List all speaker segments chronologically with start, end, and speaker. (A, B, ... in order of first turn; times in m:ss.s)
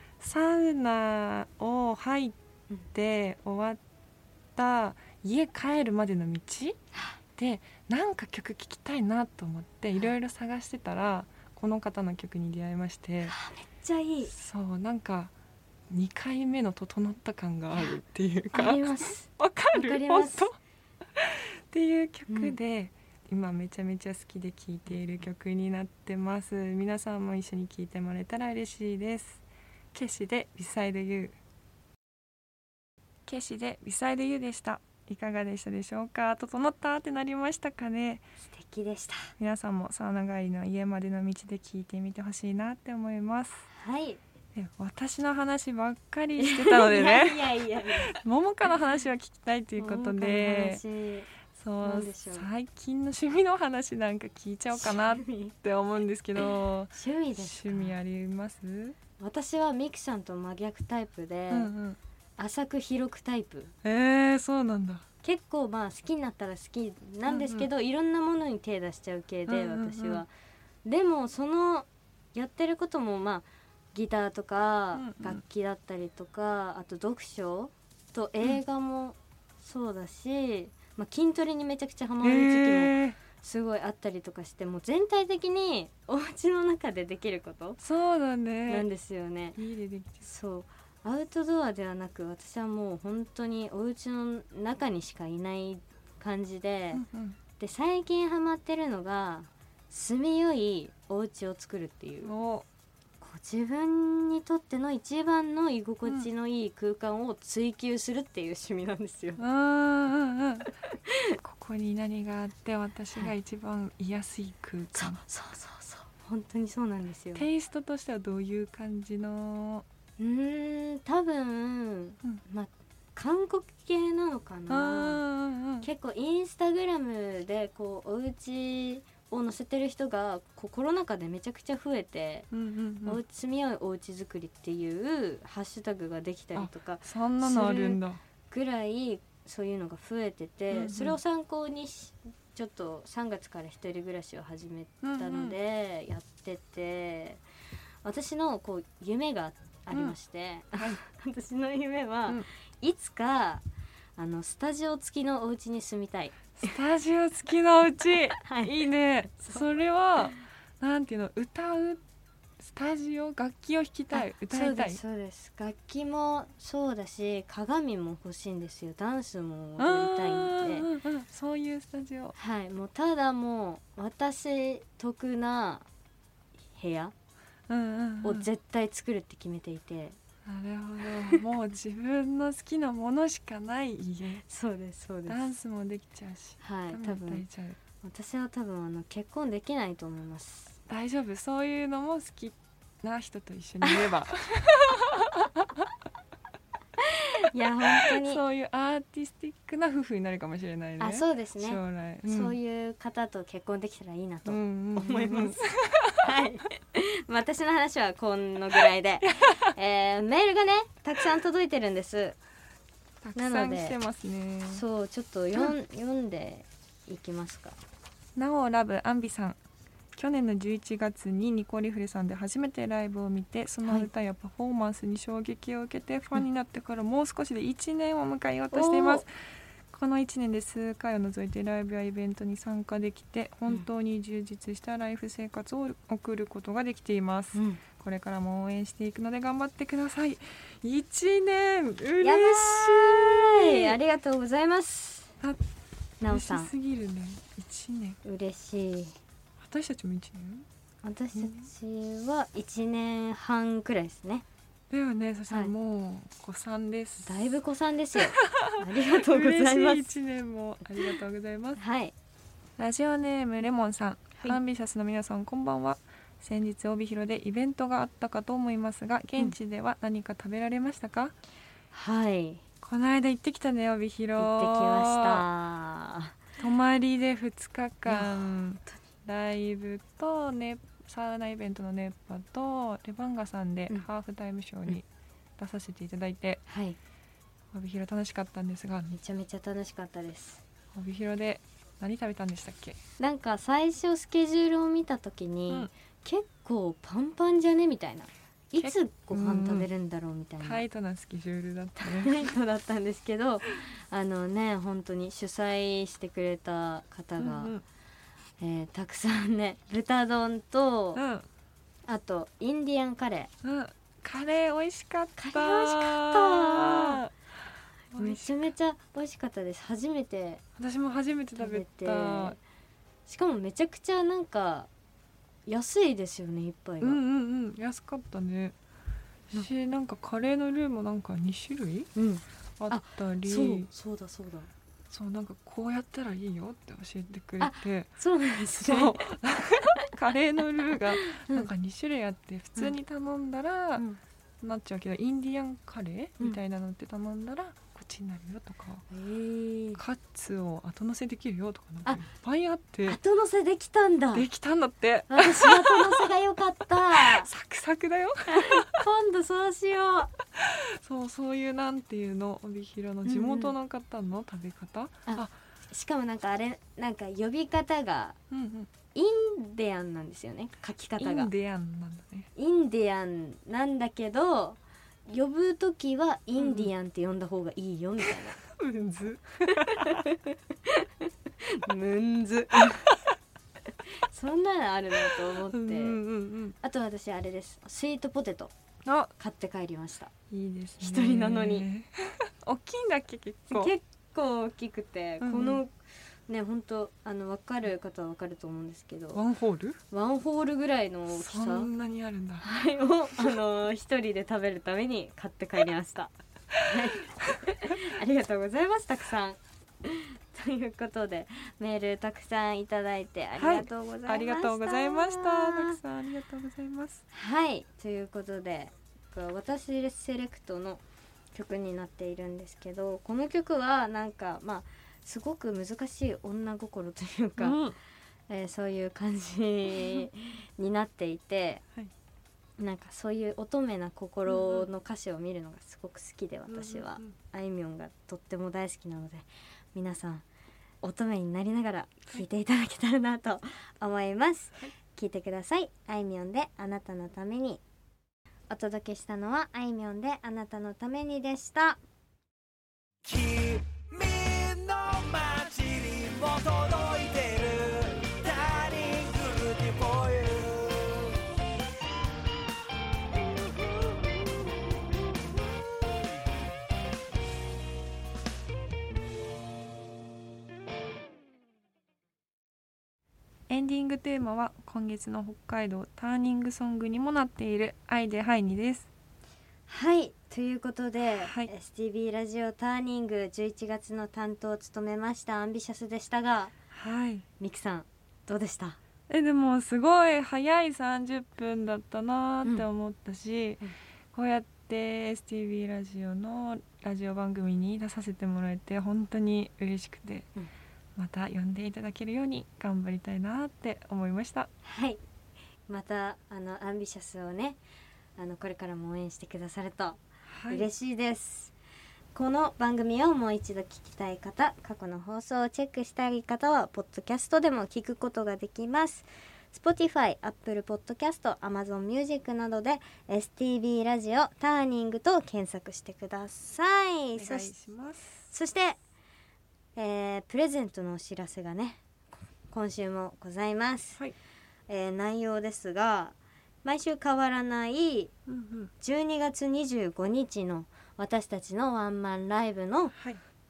0:00.2-0:02.4 A
0:02.9-0:03.8 A
0:04.6-0:06.8 A
0:07.4-0:13.4 A
0:13.3-0:14.3 B
0:14.3-0:15.3 A
0:15.9-0:20.6 A
0:18.5-0:20.5 B
0:21.2-0:29.4 A
0:22.3-0:22.6 B
0:29.9-0:31.4 A
0:33.3-0:38.2 A
0:38.5-0:39.3 B
0:39.4-0:43.7 A
0:43.7-0:44.2 B
0:44.6-0:50.8 A
0:46.4-0:48.2 B
0:49.8-0:51.3 B
0:51.5-0:59.0 A
0:51.8-0:52.5 B
0:54.8-0:55.5 B
0:56.9-0:58.0 B
0:59.2-1:01.7 B
1:01.5-1:02.0 A
1:02.4-1:03.7 B
1:03.8-1:05.0 A
1:05.2-1:10.3 B
1:07.3-1:07.7 A
1:09.5-1:10.2 A
1:10.8-1:27.8 B
1:15.0-1:15.4 A
1:22.2-1:23.2 A
1:27.8-1:28.9 A
1:28.7-1:29.6 B
1:29.6-1:30.3 A
1:30.2-1:37.0 B
1:36.9-1:37.4 A
1:37.6-1:42.3 B
1:42.2-1:42.7 A
1:43.2-1:49.4 B
1:49.4-1:50.7 A
1:51.1-1:51.4 B
1:51.4-1:55.2 A
1:55.0-1:57.5 B
1:57.4-1:59.8 A
2:00.2-2:05.2 B
2:04.7-2:05.9 A
2:05.8-2:12.5 B
2:12.5-2:13.2 A
2:13.0-2:27.4 B
2:16.6-2:18.2 A
2:20.7-2:21.2 A
2:25.0-2:25.6 A
2:28.0-2:33.6 B
2:34.2-2:36.7 B
2:36.6-2:42.0 A
2:38.4-2:38.8 B
2:42.6-2:45.0 A
2:44.1-2:50.9 B
2:49.8-2:52.4 A
2:52.4-2:55.9 B
2:56.8-2:57.1 B
2:57.7-2:58.5 A
2:58.2-3:00.2 B
3:00.4-3:04.4 A
3:04.5-3:05.4 B
3:05.3-3:07.8 A
3:06.6-3:07.4 B
3:08.0-3:10.8 B
3:10.9-3:15.9 A
3:17.0-3:18.4 B
3:18.0-3:22.6 A
3:21.0-3:25.6 B
3:24.5-3:26.3 A
3:26.2-3:32.4 B
3:29.2-3:29.7 A
3:33.2-3:34.8 A
3:33.4-3:34.0 B
3:34.7-3:37.8 B
3:38.4-3:39.6 A
3:40.2-3:49.3 A
3:48.7-3:49.2 B
3:49.9-4:04.0 A
3:57.6-3:57.8 B
4:02.2-4:05.3 B
4:06.2-4:06.7 B
4:06.3-4:08.2 A
4:08.2-4:09.2 B
4:09.6-4:10.7 A
4:11.0-4:14.4 B
4:11.4-4:11.7 A
4:14.9-4:17.5 A
4:17.2-4:20.1 B
4:18.4-4:21.8 A
4:21.8-4:22.1 B
4:22.8-4:31.3 A
4:31.9-4:32.6 B
4:32.8-4:35.5 A
4:34.4-4:36.4 B
4:36.6-4:45.1 A
4:38.1-4:38.5 B
4:45.6-4:46.6 A
4:46.7-4:47.0 B
4:47.7-4:49.1 A
4:49.1-4:50.6 B
4:50.9-4:53.0 A
4:53.2-5:00.8 B
4:58.8-4:59.9 A
5:00.6-5:02.5 A
5:02.0-5:07.8 B
5:07.4-5:07.8 A
5:08.6-5:11.2 B
5:11.2-5:11.5 A
5:12.1-5:13.5 B
5:13.6-5:17.3 A
5:15.4-5:17.2 B
5:18.1-5:18.7 A
5:18.2-5:20.6 B
5:20.8-5:22.6 A
5:21.6-5:22.6 B
5:23.3-5:24.9 B
5:25.7-5:27.2 B
5:27.0-5:28.8 A
5:29.5-5:32.1 A
5:32.2-5:34.7 B
5:32.8-5:33.9 A
5:35.1-5:38.1 A
5:37.6-5:39.3 B
5:38.8-5:44.0 A
5:41.2-5:41.7 B
5:44.6-5:49.0 A
5:49.1-5:50.0 B
5:50.0-5:53.2 A
5:53.1-5:54.5 B
5:54.3-5:56.3 A
5:55.3-5:57.5 B
5:57.1-5:59.0 A
5:58.5-6:00.3 B
6:00.6-6:05.5 A
6:03.2-6:03.7 B
6:05.3-6:08.4 B
6:08.5-6:08.9 A
6:09.1-6:11.5 B
6:11.2-6:12.5 A
6:12.6-6:18.6 B
6:16.6-6:16.9 A
6:18.7-6:20.3 A
6:19.7-6:23.1 B
6:24.2-6:26.2 B
6:25.7-6:26.8 A
6:26.8-6:28.7 B
6:29.0-6:29.3 A
6:29.4-6:30.3 B
6:30.5-6:33.9 A
6:31.0-6:31.9 B
6:33.7-6:35.9 B
6:35.4-6:35.8 A
6:36.5-6:39.4 B
6:39.3-6:40.0 A
6:40.1-6:41.9 B
6:41.3-6:42.7 A
6:42.6-6:56.0 B
6:53.6-6:57.2 A
6:57.3-7:01.0 B
7:01.6-7:07.8 B
7:07.6-7:08.0 A
7:08.5-7:11.8 B
7:09.9-7:10.3 A
7:12.8-7:20.4 B
7:14.5-7:14.9 A
7:16.7-7:17.4 A
7:21.0-7:27.8 B
7:28.7-7:32.0 B
7:34.3-7:40.8 C
7:53.7-7:59.1 A
7:59.9-8:06.7 B
8:01.4-8:01.7 A
8:06.9-8:07.5 A
8:07.6-8:09.0 B
8:09.3-8:20.5 A
8:21.2-8:24.7 A
8:24.8-8:25.2 B
8:25.9-8:27.8 B
8:28.4-8:31.7 B
8:30.5-8:30.9 A
8:32.4-8:47.7 B
8:47.4-8:48.4 A
8:48.5-8:49.0 B
8:50.0-8:52.0 B
8:52.7-8:54.2 B
8:54.9-8:58.3 B
8:58.5-8:58.9 A
8:59.0-9:03.2 B
9:03.2-9:03.4 A